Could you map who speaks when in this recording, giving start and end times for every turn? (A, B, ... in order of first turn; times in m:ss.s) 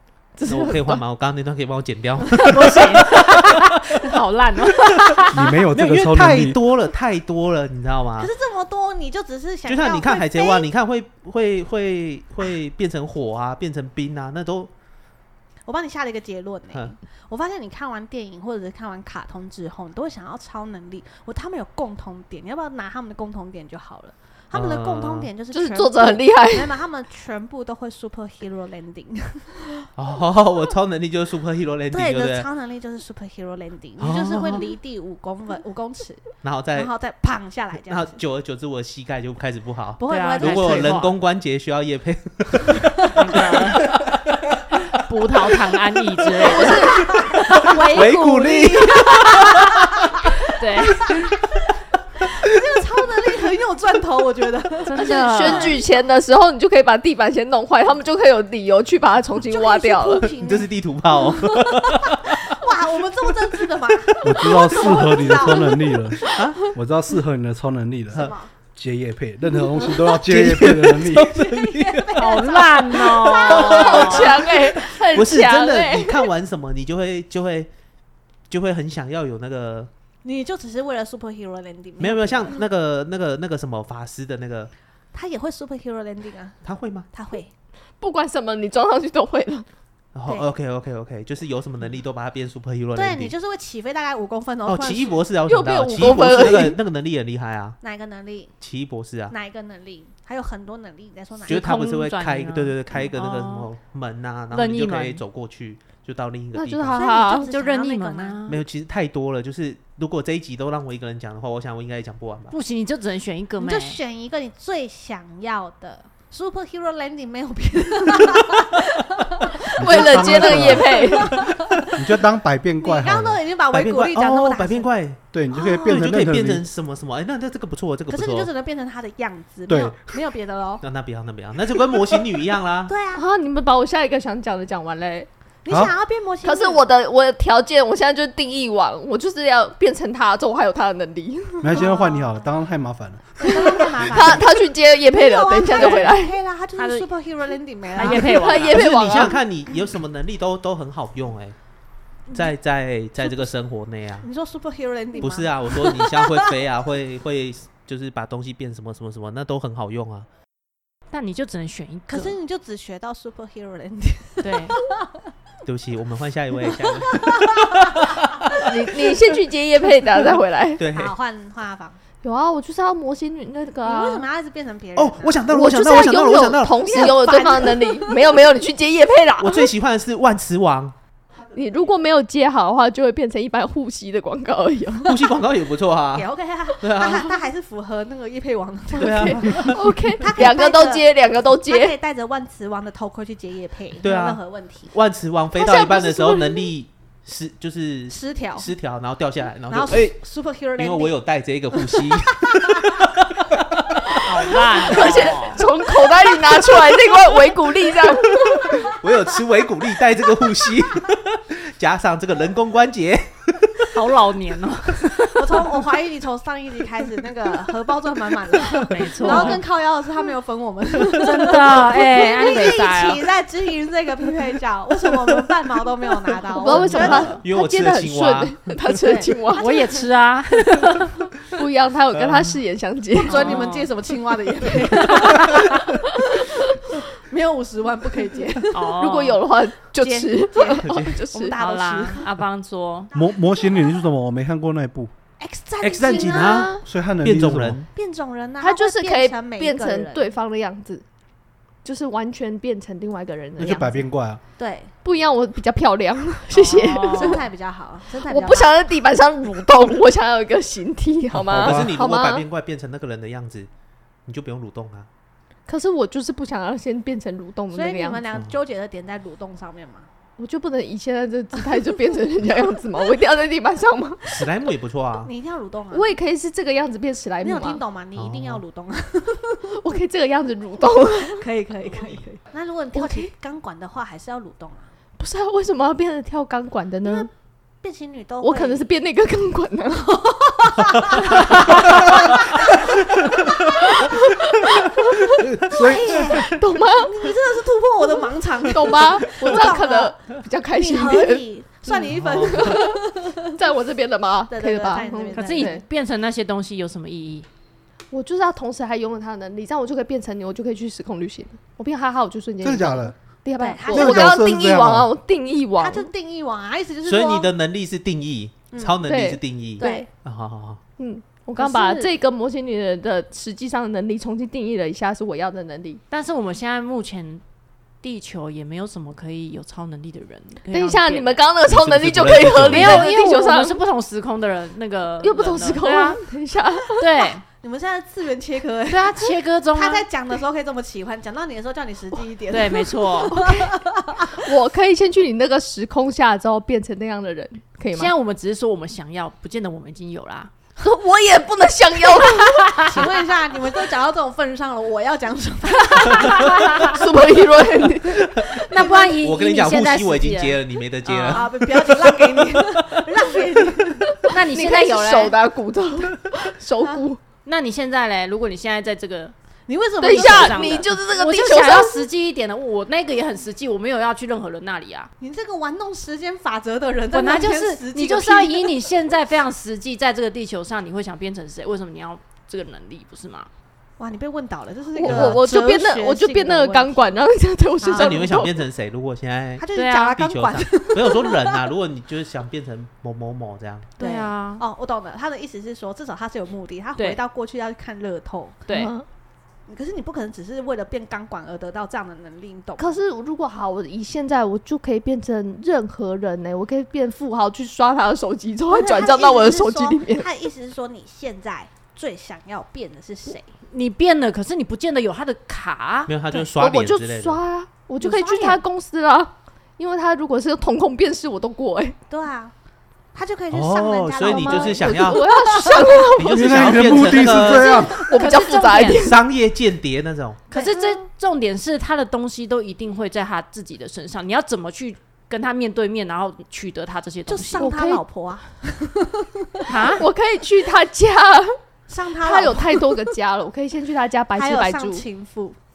0:00.4-0:01.0 A
0:00.4-0:03.7 B
0:02.3-0:05.6 C
0:04.8-0:05.2 B
0:05.3-0:06.6 D
0:05.7-0:08.3 B
0:08.2-0:10.7 E
0:09.7-0:14.7 B
0:15.6-0:29.9 E
0:24.5-0:25.3 B
0:25.5-0:26.8 A
0:30.0-0:32.5 B
0:31.9-0:38.2 E
0:34.0-0:34.6 B
0:36.4-0:36.9 B
0:37.9-0:42.9 B
0:40.0-0:41.0 E
0:40.1-0:41.1 C
0:42.8-0:43.4 E
0:43.1-0:44.0 C
0:44.9-0:47.0 C
0:46.4-0:47.1 A
0:46.4-0:50.3 B
0:46.6-0:55.9 E
0:50.5-0:51.1 C
0:54.9-0:55.7 C
0:54.9-1:00.3 A
0:59.5-1:06.0 E
1:00.4-1:02.4 B
1:04.2-1:11.3 D
1:04.2-1:04.7 B
1:06.3-1:06.6 B
1:08.1-1:08.5 E
1:09.8-1:17.7 B
1:11.3-1:14.8 E
1:12.2-1:14.4 C
1:13.4-1:16.3 A
1:18.5-1:19.9 B
1:20.2-1:22.6 E
1:22.0-1:24.7 B
1:25.1-1:26.6 E
1:26.6-1:27.1 B
1:27.1-1:27.5 E
1:28.0-1:29.7 A
1:30.2-1:33.3 B
1:32.9-1:35.2 E
1:34.6-1:37.8 B
1:35.5-1:36.8 A
1:37.8-1:38.5 E
1:38.6-1:39.3 B
1:39.3-1:41.7 E
1:41.5-1:47.0 B
1:41.5-1:43.7 C
1:44.5-1:45.2 C
1:46.5-1:47.5 A
1:46.9-1:48.4 E
1:47.4-1:48.6 C
1:48.5-1:52.6 B
1:52.5-1:54.0 C
1:53.6-2:01.9 E
1:59.8-2:01.4 D
1:59.8-2:01.4 A
2:02.0-2:03.4 D
2:02.8-2:04.9 E
2:03.7-2:05.2 B
2:05.3-2:06.6 D
2:05.5-2:06.0 E
2:05.8-2:08.5 B
2:08.1-2:10.8 E
2:09.7-2:10.1 D
2:10.8-2:12.9 B
2:12.9-2:13.2 E
2:13.2-2:15.3 A
2:15.6-2:16.9 E
2:15.7-2:15.9 D
2:16.4-2:21.8 A
2:21.6-2:23.8 D
2:21.7-2:22.5 E
2:23.4-2:28.7 E
2:23.4-2:26.4 A
2:25.7-2:26.2 C
2:26.8-2:27.1 C
2:28.0-2:28.8 C
2:28.0-2:29.4 A
2:28.5-2:31.6 B
2:32.3-2:32.5 E
2:32.3-2:34.3 B
2:33.2-2:33.6 E
2:34.2-2:36.6 E
2:35.2-2:40.3 B
2:41.1-2:42.4 C
2:42.1-2:45.0 E
2:44.4-2:44.8 C
2:45.7-2:48.6 B
2:46.7-2:48.0 E
2:48.5-2:50.8 A
2:50.8-2:51.1 B
2:50.8-2:52.0 E
2:52.2-2:54.3 A
2:53.8-2:55.5 E
2:55.0-2:57.5 B
2:55.5-2:59.7 A
2:56.8-2:58.2 E
2:59.4-3:01.0 B
3:01.5-3:05.2 A
3:05.1-3:07.3 B
3:06.1-3:11.1 E
3:09.0-3:12.0 A
3:09.0-3:09.8 B
3:11.6-3:14.9 E
3:14.0-3:20.2 B
3:15.6-3:16.7 A
3:18.1-3:18.7 E
3:19.7-3:21.2 E
3:20.8-3:24.1 B
3:22.0-3:22.8 E
3:24.2-3:25.6 C
3:24.8-3:28.9 A
3:28.7-3:33.8 B
3:33.9-3:35.6 C
3:35.4-3:47.4 E
3:38.9-3:39.6 C
3:41.2-3:43.2 C
3:46.5-3:49.7 A
3:46.7-3:47.4 C
3:47.0-3:48.6 B
3:49.0-3:50.1 E
3:49.6-3:51.2 C
3:51.4-3:53.7 A
3:53.2-3:56.4 E
3:53.3-3:53.9 C
3:55.2-3:55.8 C
3:56.9-3:59.0 E
3:58.7-3:59.4 C
3:58.9-4:01.6 A
4:00.0-4:02.3 E
4:00.8-4:01.2 B
4:01.5-4:03.1 C
4:03.1-4:04.0 E
4:03.1-4:05.1 D
4:05.4-4:06.8 E
4:05.8-4:07.9 B
4:06.2-4:06.8 A
4:06.8-4:07.8 D
4:07.9-4:10.3 E
4:08.6-4:11.0 A
4:11.8-4:14.1 A
4:13.6-4:14.4 D
4:14.6-4:14.9 E
4:15.0-4:17.4 A
4:16.5-4:17.4 C
4:17.1-4:18.8 E
4:18.2-4:22.4 A
4:21.3-4:23.7 B
4:24.3-4:25.1 B
4:25.7-4:28.2 A
4:27.7-4:30.1 E
4:30.4-4:34.3 A
4:34.3-4:35.3 B
4:35.2-4:36.1 E
4:35.9-4:37.8 A
4:37.4-4:39.7 E
4:38.2-4:38.6 B
4:39.7-4:41.5 A
4:41.2-4:44.9 E
4:41.8-4:42.2 B
4:43.0-4:43.3 A
4:45.2-4:47.3 A
4:47.0-4:47.3 E
4:47.8-4:48.9 E
4:48.4-4:50.3 A
4:50.2-4:53.9 E
4:51.9-4:52.6 A
4:53.6-4:55.1 A
4:55.3-4:56.3 D
4:55.7-5:00.2 E
4:56.0-4:57.3 A
4:58.6-5:05.8 A
5:00.7-5:03.4 E
5:02.0-5:02.6 B
5:04.5-5:05.8 E
5:05.3-5:07.5 C
5:08.1-5:16.1 A
5:12.6-5:13.1 D
5:13.6-5:14.4 E
5:13.9-5:15.1 D
5:15.8-5:17.5 E
5:17.0-5:20.8 B
5:18.7-5:19.0 E
5:19.0-5:20.1 A
5:19.8-5:20.1 E
5:21.0-5:26.0 A
5:21.6-5:22.1 E
5:26.1-5:27.4 C
5:28.0-5:31.6 C
5:30.7-5:33.8 A
5:31.6-5:33.1 B
5:32.6-5:36.2 C
5:35.2-5:37.1 A
5:37.0-5:37.5 C
5:37.6-5:44.4 E
5:38.9-5:40.1 C
5:42.5-5:43.4 C
5:43.4-5:43.7 A
5:44.3-5:48.1 A
5:47.9-5:50.6 C
5:50.8-5:52.8 A
5:52.4-5:53.1 C
5:52.8-5:57.0 E
5:56.4-5:56.9 C
5:56.9-5:58.3 A
5:58.5-6:01.5 C
5:58.8-5:59.2 E
5:59.2-6:01.5 B
6:01.3-6:04.3 E
6:04.1-6:07.2 A
6:04.3-6:05.4 C
6:07.4-6:09.4 C
6:09.7-6:10.9 E
6:10.0-6:12.1 A
6:10.2-6:15.1 C
6:15.2-6:18.8 E
6:17.1-6:23.5 C
6:24.0-6:27.0 E
6:24.9-6:28.6 A
6:25.1-6:25.4 B
6:27.8-6:28.3 E
6:27.8-6:33.9 B
6:29.6-6:31.6 E
6:29.7-6:30.2 C
6:34.0-6:38.6 E
6:34.0-6:34.6 C
6:38.7-6:38.9 C
6:38.7-6:39.0 A
6:39.7-6:43.0 E
6:42.8-6:50.3 A
6:48.7-6:53.5 E
6:53.7-6:56.2 C
6:56.1-6:57.4 B
6:56.3-7:02.0 A
6:58.0-6:58.6 C
7:02.1-7:02.5 E
7:03.2-7:06.1 E
7:03.5-7:05.2 B
7:04.2-7:09.2 A
7:06.2-7:07.7 B
7:06.3-7:08.0 D
7:07.4-7:08.4 E
7:08.1-7:09.1 C
7:09.0-7:10.5 B
7:10.5-7:17.7 C
7:10.5-7:11.1 E
7:17.3-7:20.0 E
7:17.6-7:18.0 A
7:19.7-7:20.1 C
7:20.0-7:21.6 A
7:21.9-7:23.2 E
7:22.2-7:25.0 A
7:24.4-7:25.6 E